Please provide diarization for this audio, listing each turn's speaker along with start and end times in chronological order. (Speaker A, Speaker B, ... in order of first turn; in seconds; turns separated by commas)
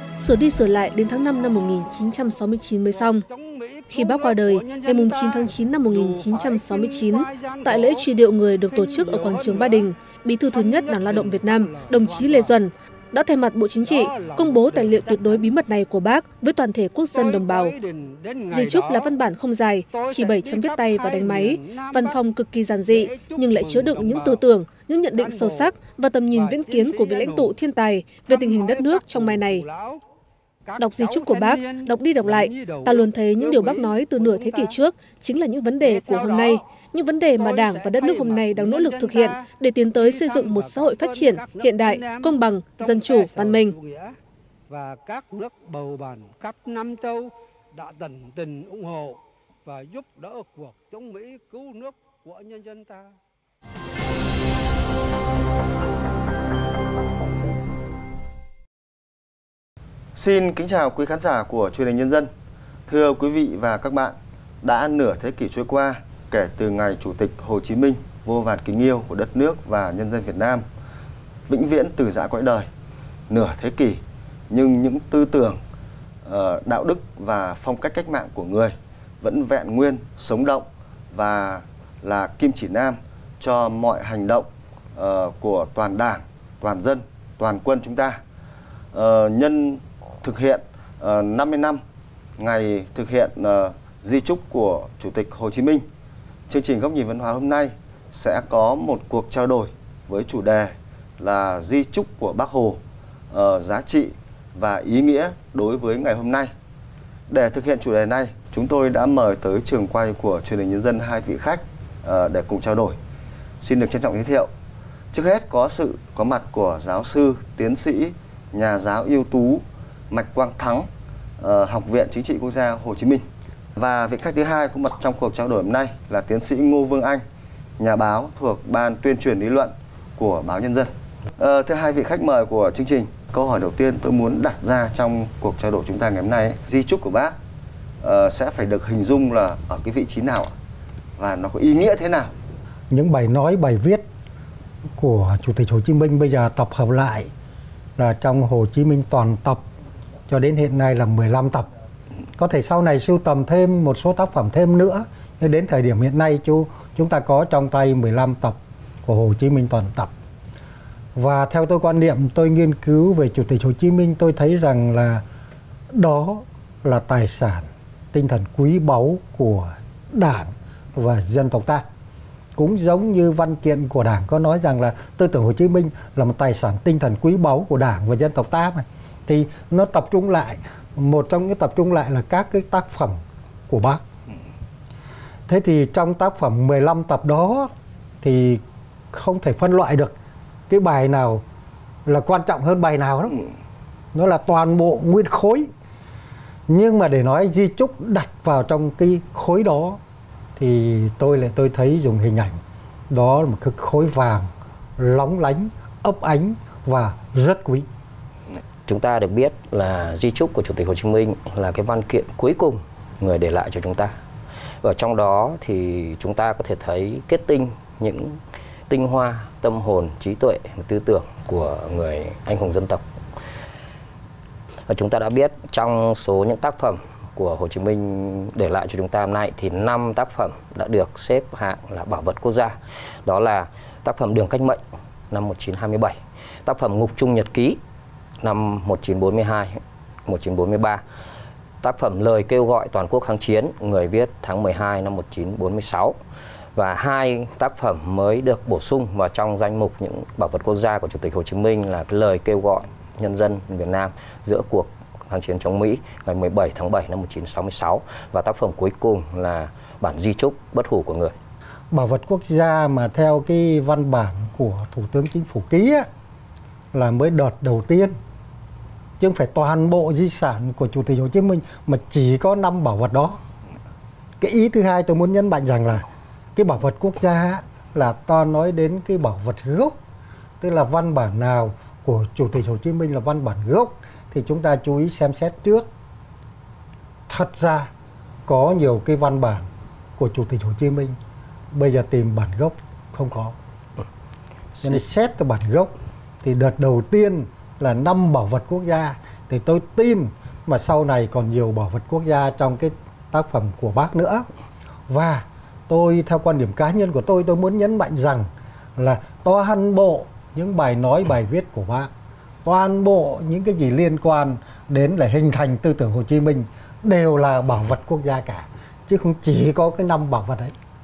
Speaker A: 0.1-3.2, Speaker B: 2.9-12.6, Speaker A: 3.9-17.8, Speaker B: 13.8-15.7, Speaker B: 17.1-19.2, Speaker A: 18.5-29.6, Speaker B: 19.9-24.5, Speaker B: 25.1-27.6, Speaker B: 28.2-30.0, Speaker B: 30.7-34.8, Speaker A: 30.8-43.8, Speaker B: 35.8-36.6, Speaker B: 37.4-44.1, Speaker B: 44.7-53.1, Speaker C: 60.2-62.3, Speaker C: 62.9-70.6, Speaker C: 71.5-72.7, Speaker C: 73.3-75.6, Speaker C: 76.2-88.2, Speaker C: 88.9-91.8, Speaker C: 92.4-95.8, Speaker C: 96.5-102.8, Speaker C: 103.3-106.5, Speaker C: 107.3-113.0, Speaker C: 113.6-114.5, Speaker C: 115.1-120.9, Speaker C: 121.4-123.2, Speaker C: 123.8-127.2, Speaker C: 127.8-137.4, Speaker C: 138.0-140.5, Speaker C: 141.2-142.3, Speaker D: 142.9-144.0, Speaker D: 145.0-147.3, Speaker D: 148.0-149.6, Speaker D: 150.3-151.7, Speaker D: 152.4-160.1, Speaker D: 161.2-165.2, Speaker D: 165.9-171.8, Speaker D: 172.6-184.0, Speaker D: 185.5-190.1, Speaker D: 190.7-191.4, Speaker D: 192.1-193.4, Speaker D: 194.1-195.7, Speaker D: 196.7-200.0, Speaker D: 200.6-202.6, Speaker D: 203.1-207.9, Speaker E: 208.9-214.1, Speaker E: 214.8-223.0, Speaker E: 224.9-234.8, Speaker E: 235.3-237.8, Speaker E: 238.4-239.8, Speaker E: 240.3-241.0, Speaker E: 241.8-246.2, Speaker E: 246.8-261.3, Speaker D: 261.9-266.1, Speaker D: 266.9-268.1, Speaker D: 269.2-273.4, Speaker D: 274.4-276.1, Speaker D: 276.6-279.9, Speaker D: 280.6-285.9, Speaker D: 287.3-287.9, Speaker D: 288.5-289.7, Speaker D: 290.2-291.2, Speaker D: 291.7-293.6, Speaker D: 294.8-295.9, Speaker D: 296.4-304.5, Speaker D: 305.1-312.1, Speaker D: 312.6-320.8